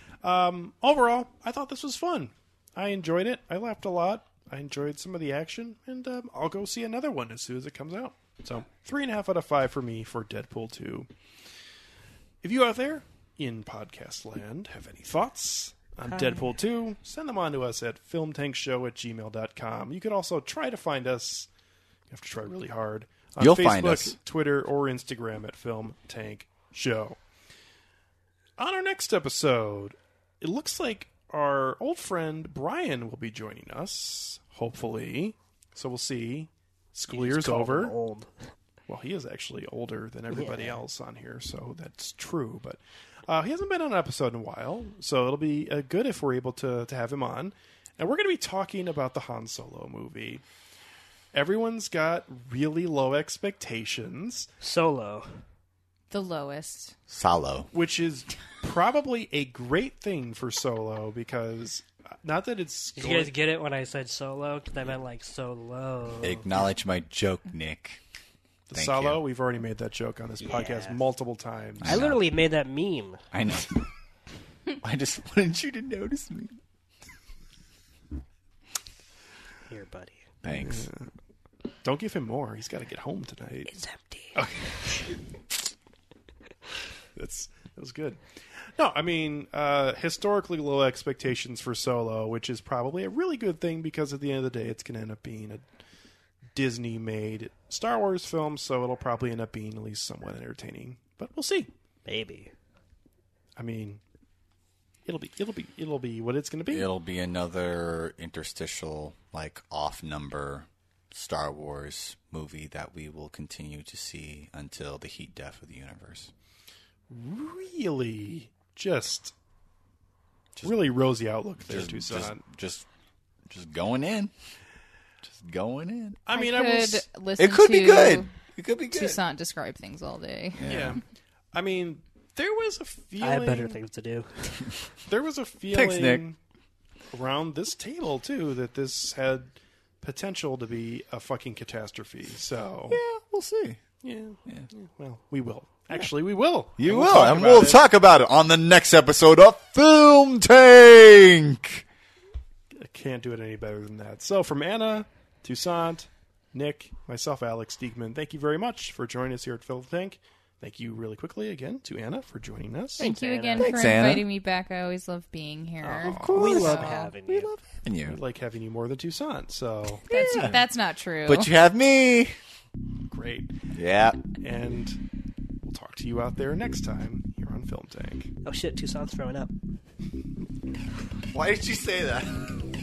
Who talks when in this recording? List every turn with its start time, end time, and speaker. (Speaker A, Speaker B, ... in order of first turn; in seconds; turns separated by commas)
Speaker A: 0.2-11.1, Speaker A: 12.4-21.5, Speaker B: 16.1-16.4, Speaker A: 22.1-27.2, Speaker C: 23.4-24.2, Speaker A: 28.6-37.9, Speaker B: 37.1-38.5, Speaker A: 38.9-50.4, Speaker B: 40.3-40.8, Speaker A: 51.3-54.5, Speaker B: 54.6-55.4, Speaker D: 56.1-57.0, Speaker C: 57.1-57.7, Speaker A: 57.7-63.3, Speaker B: 63.0-66.6, Speaker C: 66.2-68.0, Speaker A: 68.7-72.0, Speaker C: 68.7-69.2, Speaker B: 70.4-71.0, Speaker C: 71.8-72.2, Speaker B: 71.8-73.2, Speaker C: 73.3-73.9, Speaker C: 74.8-76.6, Speaker B: 79.7-80.3, Speaker C: 80.4-80.9, Speaker A: 80.5-81.1, Speaker A: 81.8-83.8, Speaker B: 83.7-84.4, Speaker A: 84.3-85.2, Speaker A: 87.2-88.2, Speaker A: 88.8-95.7, Speaker A: 96.5-101.7, Speaker B: 102.0-102.5, Speaker A: 103.6-104.0, Speaker A: 105.1-106.9, Speaker C: 106.7-116.3, Speaker A: 117.1-119.3, Speaker A: 120.6-122.4, Speaker C: 121.6-122.9, Speaker C: 123.5-124.3, Speaker C: 125.2-126.2, Speaker A: 126.3-127.0, Speaker D: 126.3-128.3, Speaker C: 127.4-129.2, Speaker D: 128.9-130.6, Speaker C: 130.6-131.0, Speaker A: 130.7-131.0, Speaker A: 131.5-133.8, Speaker B: 133.2-134.8, Speaker A: 135.1-136.4, Speaker C: 135.7-136.3, Speaker A: 137.1-143.0, Speaker C: 142.9-143.8, Speaker A: 144.0-147.8, Speaker C: 146.8-151.8, Speaker A: 152.8-163.0, Speaker D: 163.0-167.1, Speaker B: 163.0-163.8, Speaker C: 163.6-164.3, Speaker B: 165.8-167.5, Speaker A: 165.9-166.9, Speaker C: 166.0-168.2, Speaker A: 168.1-170.1, Speaker C: 170.1-170.6, Speaker D: 170.1-171.5, Speaker C: 171.3-172.3, Speaker A: 173.1-173.5, Speaker C: 173.7-174.2, Speaker A: 174.3-175.0, Speaker A: 175.6-178.3, Speaker B: 178.4-179.5, Speaker C: 181.3-182.5